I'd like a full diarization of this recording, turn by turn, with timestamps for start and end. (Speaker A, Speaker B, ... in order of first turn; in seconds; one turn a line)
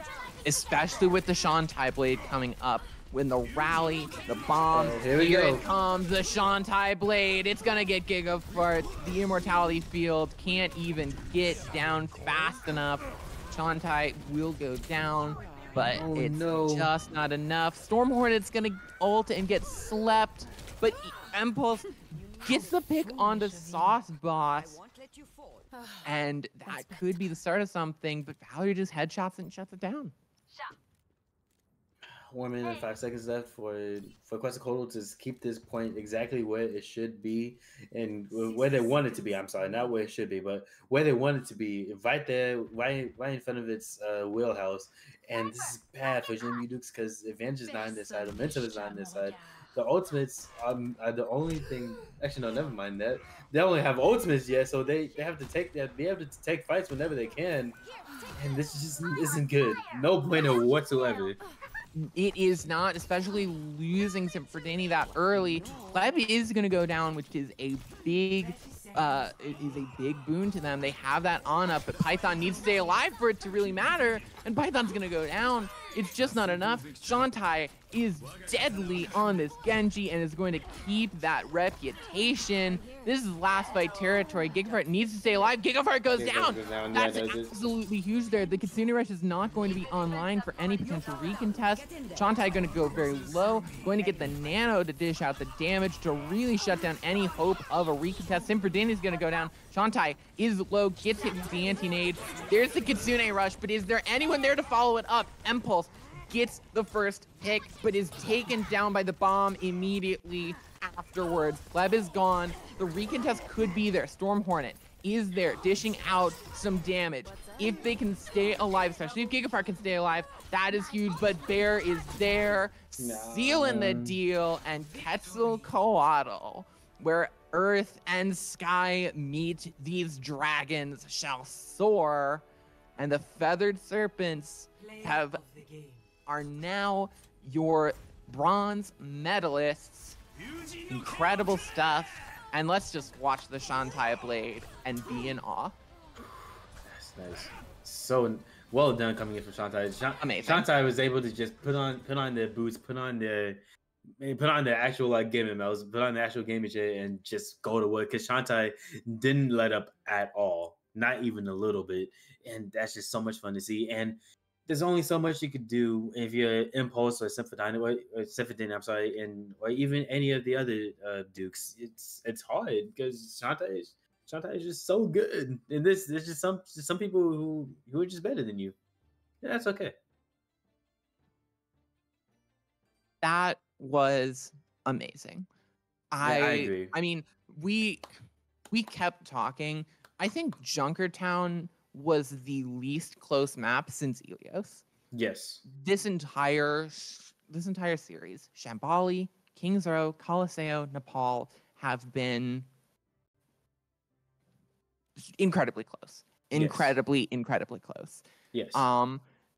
Speaker A: 0.4-24.8
Speaker B: 4.7-5.7
Speaker B: 15.9-16.9
Speaker A: 26.0-30.1
Speaker B: 32.0-57.8
Speaker B: 58.3-61.4
Speaker A: 61.9-132.4
Speaker C: 68.5-69.2
Speaker B: 86.1-87.5
Speaker B: 123.0-124.2
Speaker A: 133.0-135.4
Speaker C: 134.8-136.1
Speaker A: 136.3-140.2
Speaker A: 140.9-145.8
Speaker B: 146.2-153.6
Speaker A: 150.2-150.7
Speaker B: 154.2-178.7
Speaker B: 179.4-179.9
Speaker A: 183.2-185.5
Speaker A: 186.1-188.0
Speaker B: 186.2-186.9
Speaker A: 188.7-194.8
Speaker B: 195.1-195.6
Speaker A: 195.7-202.7
Speaker A: 205.2-209.2
Speaker B: 206.5-206.9
Speaker B: 208.5-208.9